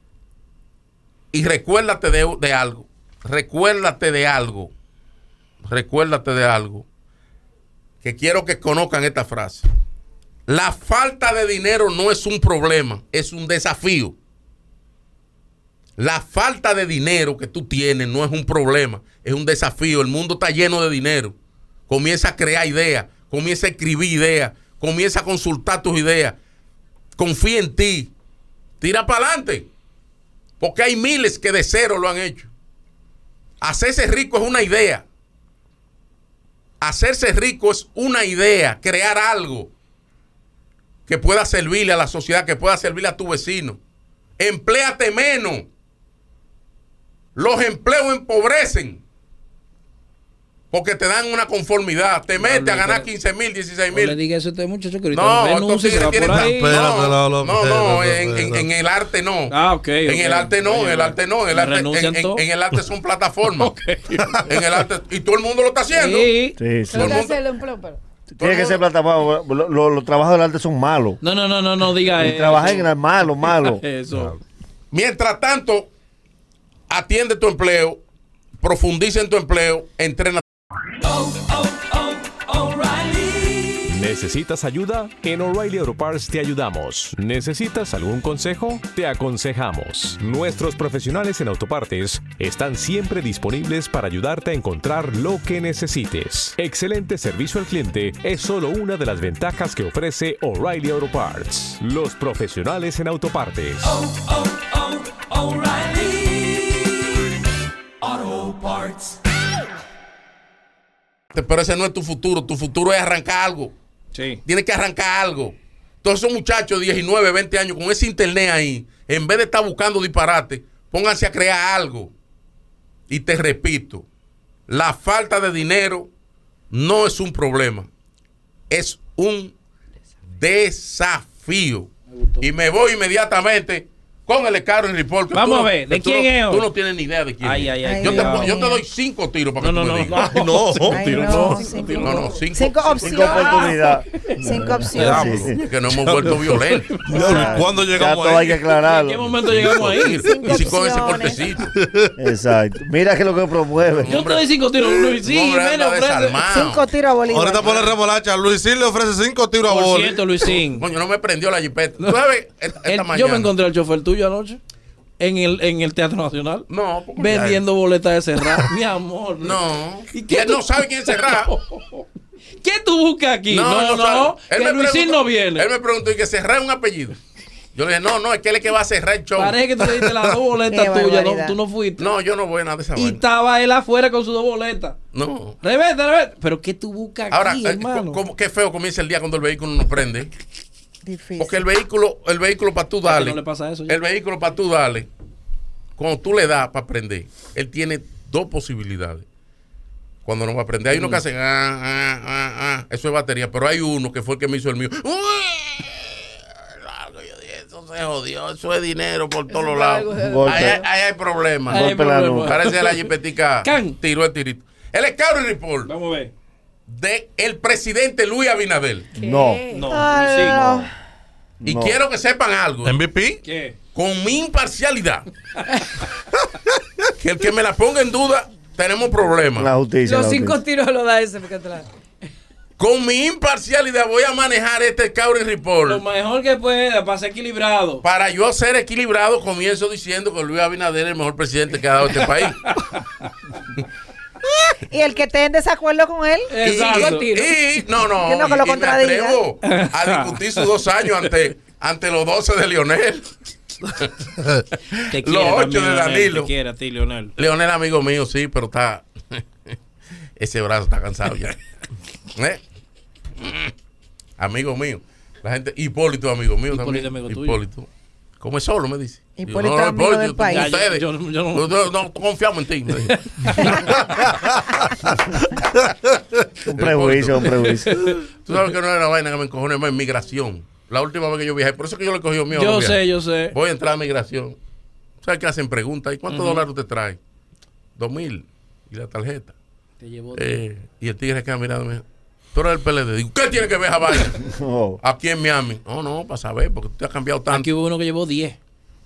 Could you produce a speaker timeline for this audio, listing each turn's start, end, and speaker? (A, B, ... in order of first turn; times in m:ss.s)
0:01.3-0:04.7 A
0:05.6-0:06.8 A
0:08.0-0:09.7 A
0:10.5-0:14.1 A
0:16.0-0:21.3 A
0:21.9-0:26.4 A
0:27.2-0:28.1 A
0:28.8-0:29.7 A
0:30.6-0:32.5 A
0:33.6-0:35.0 A
0:36.8-0:39.7 A
0:41.1-0:43.8 A
0:44.4-0:45.6 A
0:47.3-0:49.0 A
0:50.7-0:54.2 A
0:52.3-0:53.1 B
0:53.9-0:56.8 B
0:55.1-1:03.7 A
0:56.2-0:58.6 C
0:59.5-1:02.4 B
1:03.6-1:04.4 B
1:04.4-1:06.3 A
1:05.9-1:06.6 B
1:06.6-1:07.2 D
1:06.9-1:08.0 E
1:06.9-1:07.4 A
1:08.4-1:11.2 D
1:08.4-1:08.8 A
1:11.2-1:14.4 B
1:12.2-1:13.8 D
1:14.9-1:15.9 A
1:16.9-1:18.0 A
1:18.6-1:20.4 A
1:21.2-1:21.9 B
1:22.5-1:23.3 B
1:23.9-1:44.0 F
1:48.5-1:48.8 B
1:51.3-1:53.7 A
1:54.1-1:54.4 B
1:54.4-2:02.1 A
2:03.1-2:04.0 A
2:04.7-2:06.1 A
2:06.7-2:07.9 A
2:08.7-2:09.5 A
2:10.4-2:20.4 A
2:12.1-2:12.4 B
2:15.3-2:16.7 B
2:17.4-2:18.6 B
2:17.8-2:18.8 G
2:19.6-2:22.3 B
2:20.2-2:21.1 C
2:20.9-2:23.8 G
2:21.2-2:23.5 A
2:23.0-2:25.6 D
2:23.2-2:24.3 B
2:24.4-2:25.4 G
2:24.9-2:27.7 B
2:25.4-2:27.3 A
2:27.1-2:28.6 C
2:27.2-2:29.3 D
2:28.8-2:30.7 B
2:29.4-2:31.7 A
2:30.2-2:31.4 G
2:31.8-2:32.1 C
2:32.2-2:34.1 D
2:34.0-2:36.9 A
2:34.0-2:36.4 B
2:36.5-2:37.9 G
2:37.3-2:40.2 C
2:37.6-2:37.9 B
2:39.6-2:40.9 B
2:40.6-2:43.5 A
2:42.8-2:44.6 B
2:45.2-2:49.6 B
2:46.7-2:47.6 A
2:49.4-2:51.5 A
2:50.1-2:52.0 B
2:52.6-2:55.7 B
2:53.5-2:57.2 A
2:57.7-3:00.0 A
2:59.4-3:02.1 B
3:00.6-3:01.6 G
3:02.0-3:03.2 A
3:03.0-3:05.0 B
3:05.1-3:05.6 A
3:05.6-3:08.2 B
3:07.3-3:10.3 A
3:11.0-3:11.6 G
3:11.4-3:15.1 A
3:13.0-3:14.0 B
3:16.0-3:19.2 A
3:20.2-3:26.2 A
3:20.9-3:21.2 B
3:26.8-3:35.9 A
3:29.5-3:30.8 E
3:30.1-3:30.8 D
3:31.7-3:33.1 B
3:31.7-3:32.5 D
3:33.6-3:34.0 B
3:35.9-3:36.3 B
3:36.9-3:39.1 A
3:39.1-3:39.7 D
3:39.1-3:40.0 E
3:39.7-3:40.6 B
3:39.9-3:40.9 G
3:40.5-3:40.8 D
3:41.6-3:42.0 D
3:41.6-3:43.0 A
3:42.8-3:43.4 C
3:43.4-3:43.8 B
3:43.9-3:45.2 A
3:47.2-3:49.7 A
3:49.6-3:50.6 D
3:50.0-3:51.9 E
3:52.8-3:56.0 A
3:55.9-3:58.0 B
3:58.0-4:02.6 A
4:02.2-4:03.0 B
4:04.9-4:06.5 G
4:06.5-4:07.5 B
4:06.6-4:13.3 A
4:06.8-4:07.5 E
4:08.2-4:09.4 G
4:09.6-4:10.7 B
4:15.1-4:17.3 B
4:15.1-4:16.5 A
4:17.4-4:19.7 A
4:20.4-4:21.5 A
4:22.4-4:22.6 A
4:23.4-4:23.7 A
4:24.4-4:27.9 A
4:26.7-4:27.6 B
4:28.4-4:33.8 A
4:29.4-4:30.7 G
4:30.4-4:31.7 B
4:33.1-4:33.9 B
4:36.7-4:37.9 D
4:36.8-4:37.6 A
4:38.3-4:43.0 A
4:42.5-4:43.6 B
4:43.5-4:44.6 A
4:45.2-4:47.2 A
4:46.3-4:46.6 B
4:48.0-4:49.5 A
4:50.0-4:50.6 B
4:50.3-4:52.0 A
4:52.5-4:54.4 A
4:54.5-4:55.0 D
4:55.0-4:57.7 A
4:57.5-4:58.6 B